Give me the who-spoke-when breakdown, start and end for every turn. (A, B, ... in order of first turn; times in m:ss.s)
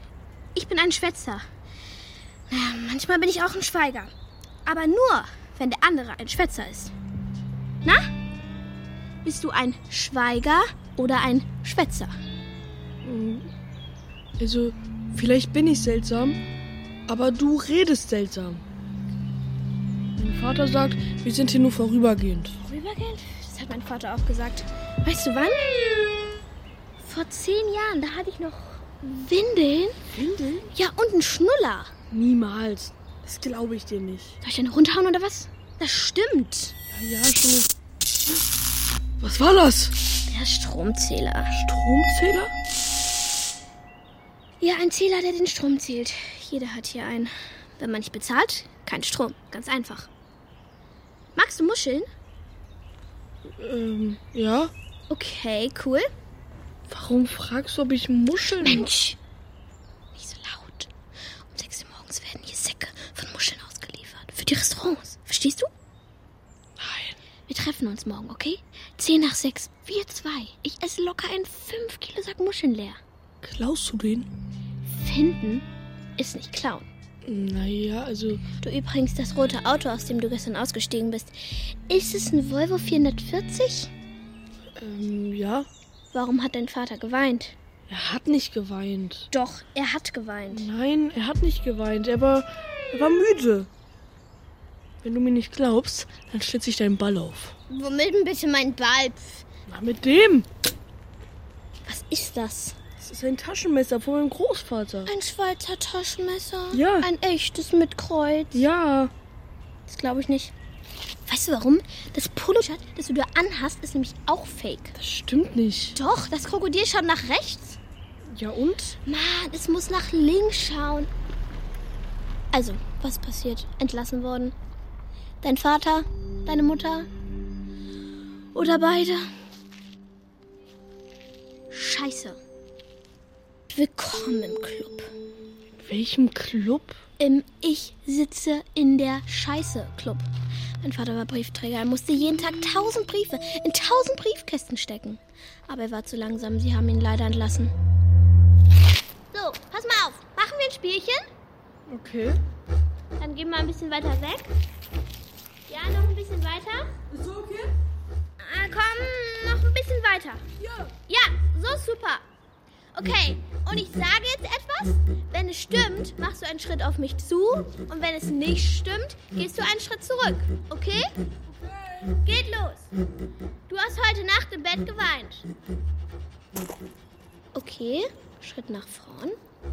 0:00.5-0:01.4 A
0:02.5-0:04.1 A
0:04.6-0:06.9 A
0:09.2-0:12.1 A
0:13.0-0:13.4 B
0:14.4-0:16.4 B
0:17.1-0:18.6 B
0:20.2-0:22.5 B
0:22.6-0:26.3 A
0:27.0-0:30.0 A
0:30.1-0:30.7 B
0:30.7-0:31.9 A
0:32.1-0:34.4 B
0:34.4-0:36.7 A
0:36.9-0:37.7 B
0:39.2-0:39.9 B
0:40.3-0:41.5 A
0:41.5-0:42.5 B
0:44.6-0:50.1 A
0:51.3-0:52.1 A
0:53.6-0:54.7 B
0:55.1-0:56.1 A
0:56.9-0:58.9 B
0:58.6-0:59.2 A
1:00.1-1:00.9 A
1:01.5-1:05.7 A
1:06.8-1:07.2 B
1:07.5-1:13.0 A
1:13.4-1:14.3 B
1:14.9-1:15.6 A
1:16.2-1:16.9 A
1:17.3-1:18.4 B
1:18.6-1:23.9 A
1:24.8-1:25.7 B
1:26.1-1:27.6 A
1:27.9-1:29.3 B
1:29.3-1:30.7 A
1:30.5-1:33.7 B
1:35.0-1:37.5 B
1:37.7-1:39.4 A
1:39.7-1:40.5 B
1:41.8-1:42.8 A
1:43.0-1:45.1 B
1:45.0-1:48.6 A
1:46.7-1:47.1 B
1:48.5-1:49.1 B
1:49.9-1:50.5 A
1:51.2-1:54.9 A
1:55.0-1:56.0 B
1:55.9-1:57.8 A
1:58.3-1:59.0 B
1:59.0-2:01.1 A
2:02.5-2:04.5 A
2:05.4-2:07.1 A
2:08.5-2:09.3 A
2:11.7-2:12.4 A
2:13.7-2:15.1 A
2:15.8-2:17.0 B
2:17.2-2:20.2 A
2:20.8-2:27.7 A
2:29.3-2:31.3 A
2:31.9-2:32.4 B
2:33.2-2:34.5 A
2:35.7-2:36.9 A
2:37.1-2:37.7 B
2:38.4-2:40.4 A
2:40.6-2:40.9 B
2:41.1-2:42.2 A
2:42.9-2:51.1 A
2:51.6-2:52.0 B
2:52.2-2:52.9 A
2:53.7-2:55.4 A
2:57.5-2:59.4 A